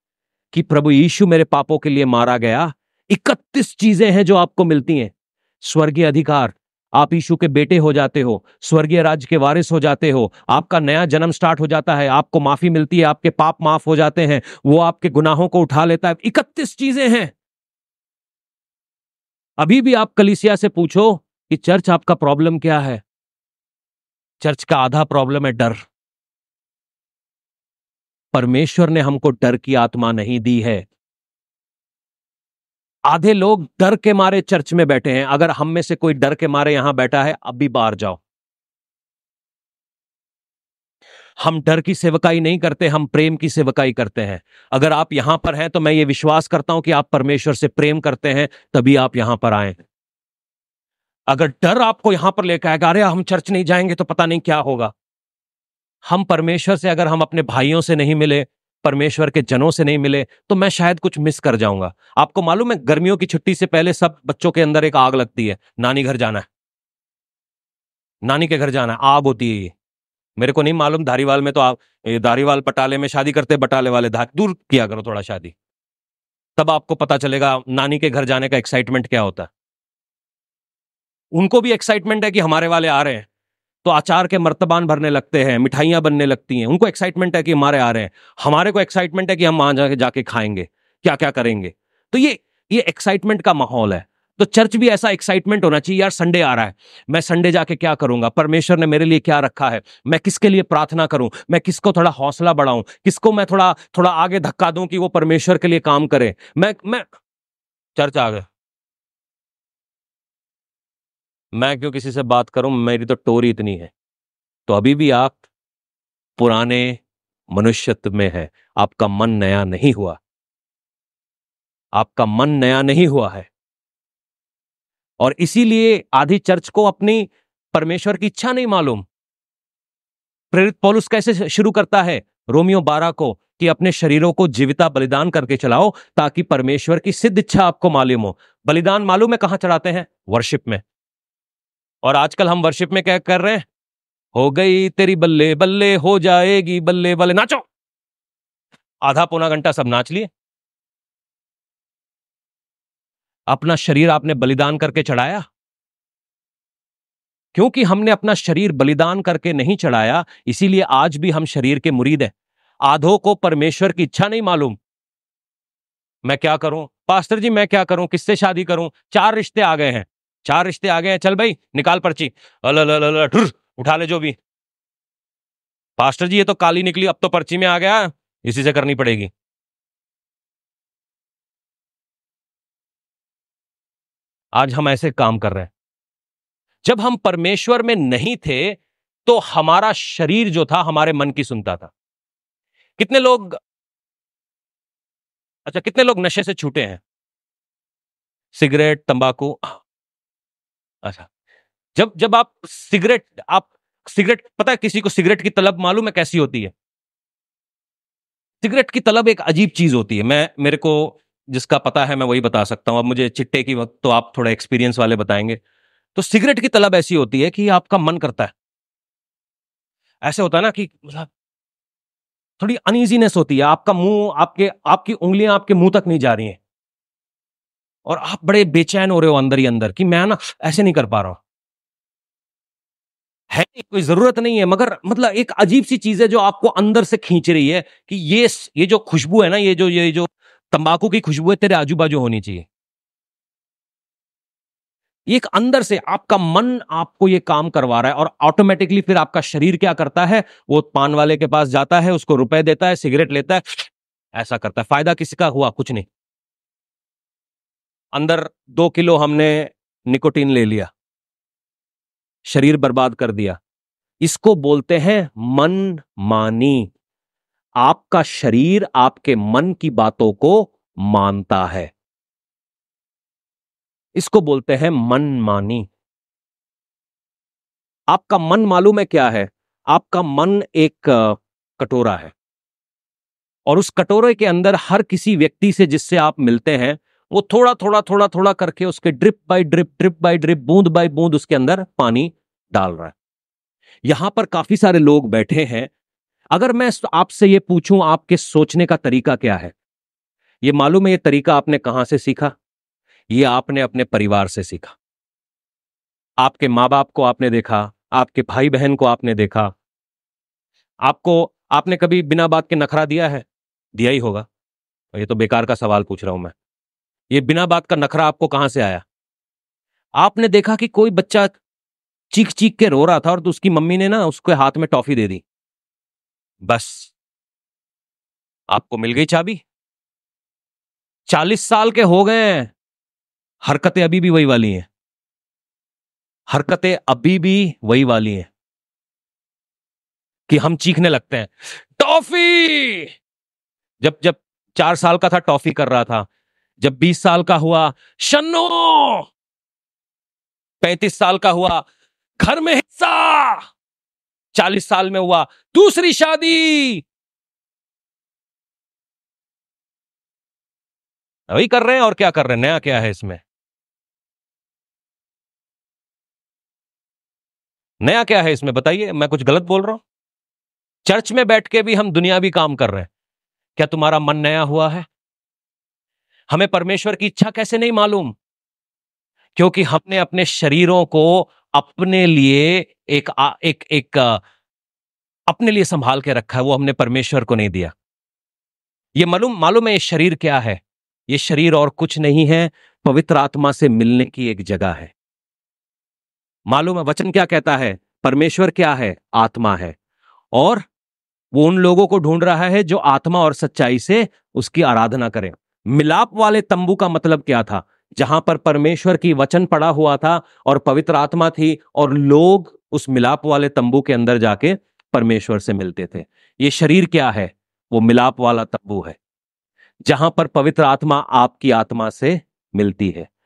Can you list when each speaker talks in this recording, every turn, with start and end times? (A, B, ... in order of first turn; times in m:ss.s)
0:00.5-0:17.3 A
0:19.6-0:23.0 A
0:24.4-0:25.8 A
0:28.3-0:30.9 A
0:33.1-0:38.2 A
0:41.4-0:49.8 A
0:51.3-0:54.9 A
0:56.1-1:06.5 A
1:08.2-1:09.7 A
1:10.4-1:15.5 A
1:16.6-1:19.5 A
1:21.3-1:23.3 A
1:23.8-1:47.0 A
1:48.0-1:48.5 A
1:51.5-1:53.9 A
1:54.7-1:55.4 A
1:56.4-1:57.0 A
1:57.5-2:00.2 A
2:02.0-2:03.5 A
2:05.2-2:09.0 A
2:10.5-2:20.8 A
2:22.0-2:23.6 A
2:24.3-2:27.6 A
2:29.0-2:30.3 A
2:33.5-2:35.4 A
2:37.5-2:42.3 A
2:42.8-2:44.8 A
2:46.2-2:54.4 A
2:56.0-2:59.3 A
3:04.5-3:05.7 A
3:06.8-3:11.9 A
3:13.0-3:13.6 A
3:15.6-3:17.0 A
3:18.5-3:19.8 A
3:21.0-3:21.3 A
3:22.0-3:26.7 A
3:28.6-3:35.6 A
3:36.1-3:38.5 A
3:40.2-3:41.3 A
3:42.6-3:46.6 A
3:48.0-3:51.4 A
3:53.5-4:02.6 A
4:05.3-4:16.1 A
4:18.1-4:20.9 A
4:22.4-4:23.6 A
4:24.2-4:26.9 A
4:27.8-4:31.9 A
4:34.2-4:35.9 A
4:38.1-4:42.3 A
4:43.7-4:53.1 A
4:54.0-4:55.9 A
4:56.5-4:59.7 A
5:00.6-5:02.5 A
5:03.3-5:04.9 A
5:06.4-5:09.7 A
5:11.0-5:14.5 A
5:15.1-5:16.5 A
5:17.3-5:19.0 A
5:20.2-5:21.5 A
5:22.3-5:25.4 A
5:26.6-5:27.1 A
5:28.7-5:29.6 A
5:31.3-5:32.7 A
5:33.6-5:34.9 A
5:36.5-5:38.5 A
5:40.5-5:43.1 A
5:44.0-5:46.3 A
5:46.8-5:49.3 A
5:50.8-5:51.8 A
5:52.4-5:53.7 A
5:54.5-5:57.0 A
6:01.5-6:03.4 A
6:08.0-6:10.0 A
6:11.0-6:13.1 A
6:13.8-6:15.0 A
6:16.5-6:18.3 A
6:19.6-6:24.4 A
6:25.5-6:27.9 A
6:29.2-6:35.1 A
6:36.7-6:40.0 A
6:40.5-6:40.8 A
6:41.5-6:59.2 A
7:00.0-7:03.3 A